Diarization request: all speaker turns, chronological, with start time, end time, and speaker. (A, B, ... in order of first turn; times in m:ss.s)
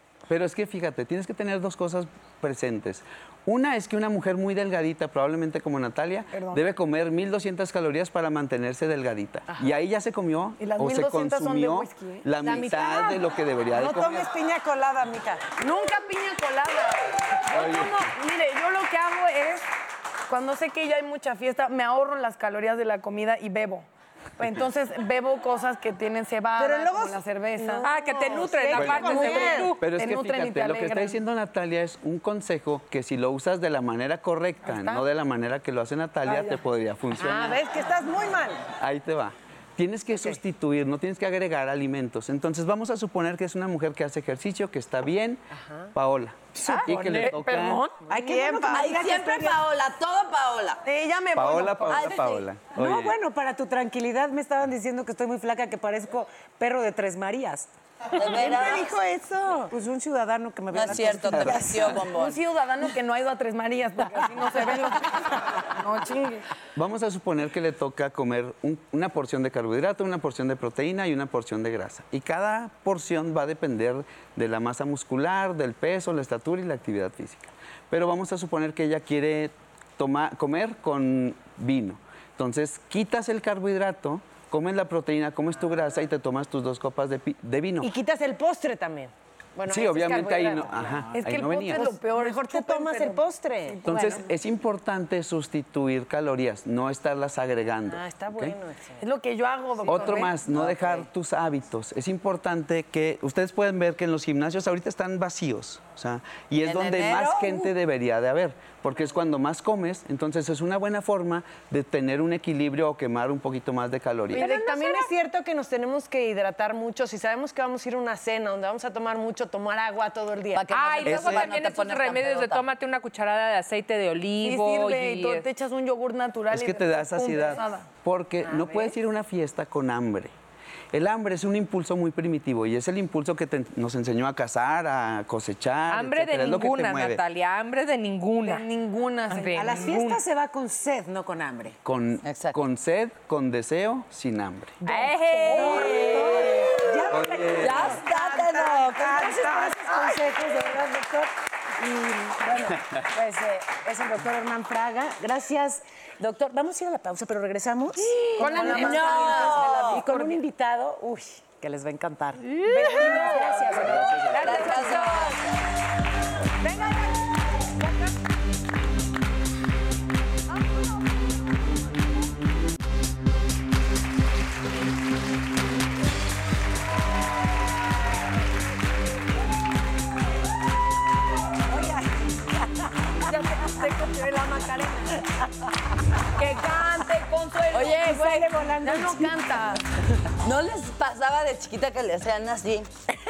0:00.3-0:14.3 A
0:06.3-0:06.6 B
0:10.6-0:12.2 B
0:12.4-0:13.2 C
0:13.7-0:15.4 C
0:15.5-0:19.6 B
0:17.5-0:18.1 A
0:20.3-0:23.9 B
0:24.4-0:27.9 B
0:26.6-0:29.8 C
0:27.8-0:29.8 D
0:28.7-0:37.7 A
0:29.3-0:31.2 B
0:34.7-0:35.0 B
0:37.2-0:38.6 C
0:38.7-0:45.4 A
0:45.9-0:47.8 A
0:46.5-0:48.0 B
0:48.0-0:49.6 E
0:48.1-0:48.8 C
0:48.7-0:50.8 F
0:50.8-0:52.2 B
0:51.3-0:53.2 A
0:51.9-0:52.4 F
0:52.7-1:02.1 E
0:58.1-0:58.9 F
0:59.4-0:59.6 C
1:00.7-1:02.4 F
1:00.9-1:01.6 A
1:02.1-1:06.5 B
1:06.8-1:27.9 A
1:27.8-1:31.1 C
1:29.7-1:31.9 A
1:31.1-1:34.2 B
1:31.7-1:34.1 C
1:33.8-1:38.6 A
1:37.9-1:39.0 C
1:39.0-1:40.3 B
1:39.8-1:41.0 C
1:39.9-1:54.5 A
1:46.6-1:47.7 F
1:54.3-2:00.6 C
1:54.4-1:55.1 B
2:00.5-2:02.7 F
2:00.7-2:05.5 D
2:01.0-2:01.5 A
2:04.4-2:07.9 B
2:06.5-2:10.3 A
2:08.5-2:08.8 C
2:10.9-2:17.2 A
2:15.9-2:18.7 D
2:18.4-2:20.1 B
2:19.3-2:20.2 D
2:19.5-2:21.8 E
2:21.8-2:24.8 A
2:22.2-2:22.6 F
2:24.8-2:26.2 D
2:25.5-2:45.1 E
2:25.5-2:30.1 F
2:25.5-2:26.5 C
2:27.1-2:27.8 A
2:28.1-2:29.7 C
2:38.4-2:40.0 B
2:38.4-2:40.4 C
2:38.4-2:38.8 D
2:38.4-2:40.1 F
2:42.5-2:43.4 D
2:42.7-2:43.6 C
2:43.9-2:45.6 F
2:44.3-2:45.4 D
2:44.6-2:44.9 C
2:46.6-2:47.1 C
3:03.2-3:05.3 B
3:06.4-3:09.8 B
3:07.5-3:08.6 F
3:07.8-3:09.6 E
3:10.4-3:12.9 F